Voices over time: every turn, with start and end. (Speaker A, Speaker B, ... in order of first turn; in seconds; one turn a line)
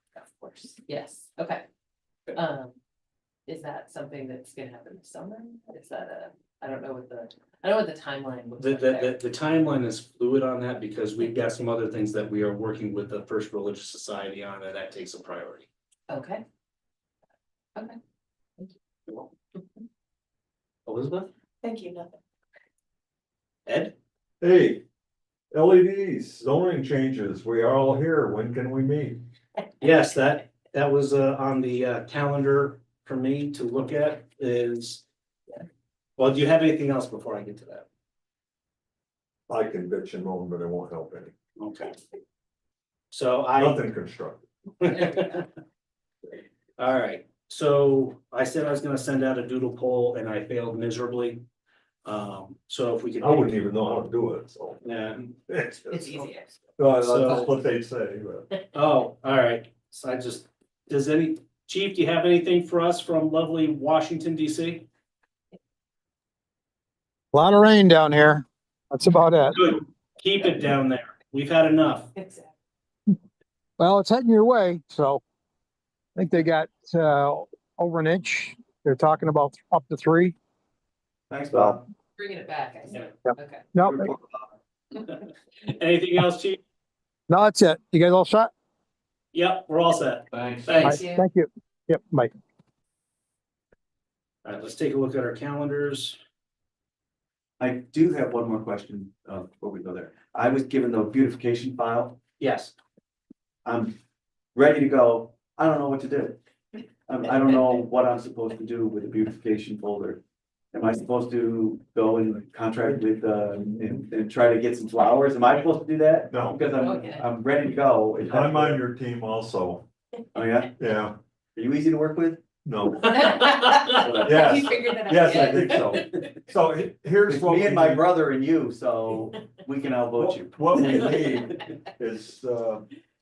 Speaker A: 0.1-1.6
Speaker A: 2.3-2.7
Speaker A: 3.5-9.2
Speaker B: 8.6-15.7
Speaker A: 16.1-16.4
Speaker B: 20.9-21.3
Speaker B: 23.7-23.9
Speaker C: 24.4-24.8
Speaker C: 25.5-29.2
Speaker B: 29.8-35.0
Speaker B: 36.2-37.9
Speaker C: 39.5-41.3
Speaker B: 41.6-42.0
Speaker B: 43.1-43.8
Speaker C: 43.5-44.4
Speaker B: 44.8-45.5
Speaker A: 44.9-45.4
Speaker B: 46.8-51.4
Speaker B: 52.0-53.5
Speaker C: 53.2-54.8
Speaker B: 54.8-55.3
Speaker C: 55.5-56.2
Speaker A: 55.9-56.5
Speaker C: 56.8-58.5
Speaker B: 57.0-57.5
Speaker B: 58.7-64.9
Speaker D: 67.3-69.6
Speaker B: 69.5-72.1
Speaker A: 72.2-72.5
Speaker D: 73.8-75.2
Speaker D: 76.2-80.3
Speaker E: 81.3-81.8
Speaker A: 82.2-83.6
Speaker D: 83.2-84.1
Speaker E: 83.9-84.4
Speaker B: 85.0-86.6
Speaker D: 87.3-88.5
Speaker B: 89.3-91.0
Speaker D: 90.8-92.3
Speaker A: 90.8-91.2
Speaker B: 94.4-96.2
Speaker E: 97.6-102.2
Speaker B: 102.4-102.7
Speaker E: 103.6-104.0
Speaker E: 104.5-106.4
Speaker E: 107.1-110.2
Speaker E: 110.7-118.8
Speaker C: 116.3-116.6
Speaker A: 116.8-117.2
Speaker C: 118.2-119.9
Speaker E: 120.3-120.7
Speaker C: 120.8-121.2
Speaker E: 121.5-122.4
Speaker C: 122.6-123.3
Speaker A: 123.2-126.2
Speaker E: 123.9-124.5
Speaker C: 124.2-128.1
Speaker E: 127.2-131.5
Speaker C: 130.2-132.9